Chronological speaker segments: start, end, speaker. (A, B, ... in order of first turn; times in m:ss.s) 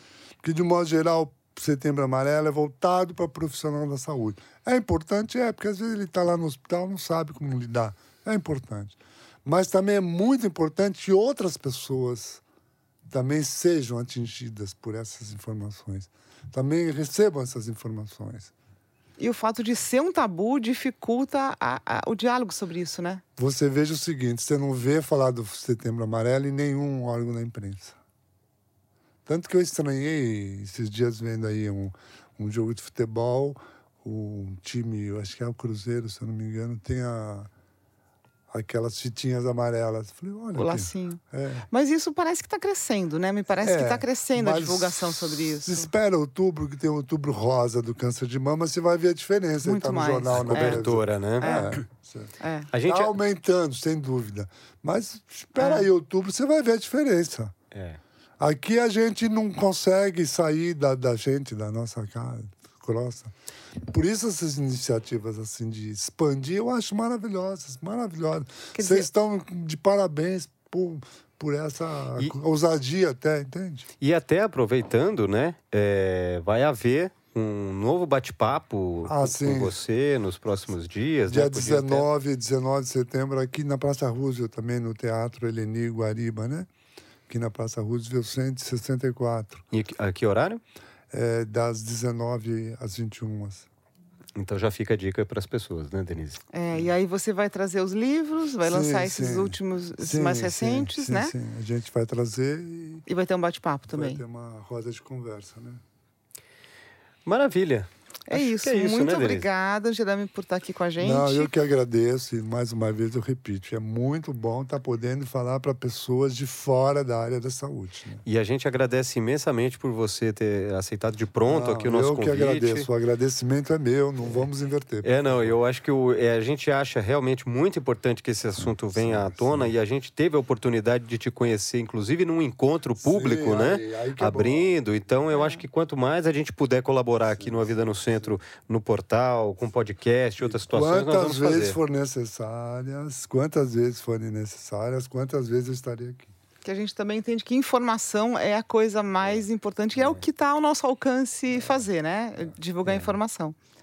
0:00.4-0:12.4 A
0:13.1-0:18.5 A
0:19.2-0:23.2 B
0:23.4-0:28.0 A
0:29.3-0:37.5 A
0:38.5-0:41.7 A
0:40.6-0:45.9 B
0:43.6-0:52.3 A
0:49.6-0:51.8 B
0:50.3-0:51.7 C
0:52.4-0:52.7 B
0:52.7-0:53.2 C
0:52.8-0:57.5 A
0:55.6-0:55.9 B
0:57.7-0:58.0 C
0:58.4-1:03.3 A
1:03.9-1:13.9 A
1:08.8-1:09.1 B
1:14.0-1:22.0 C
1:19.1-1:19.8 A
1:21.3-1:26.7 A
1:27.3-1:29.6 A
1:29.7-1:30.6 C
1:31.1-1:33.7 A
1:34.4-1:36.4 C
1:36.5-1:41.3 B
1:38.6-1:43.1 A
1:43.1-1:44.2 B
1:43.9-1:45.8 A
1:47.3-1:49.5 C
1:48.3-1:51.5 B
1:51.0-1:58.2 A
1:58.2-2:02.9 C
2:01.5-2:05.6 A
2:05.0-2:21.8 C
2:08.6-2:09.7 A
2:13.0-2:14.8 A
2:15.3-2:15.6 B
2:17.3-2:18.4 A
2:20.4-2:26.3 A
2:26.6-2:33.6 B
2:30.0-2:30.2 C
2:32.8-2:33.2 C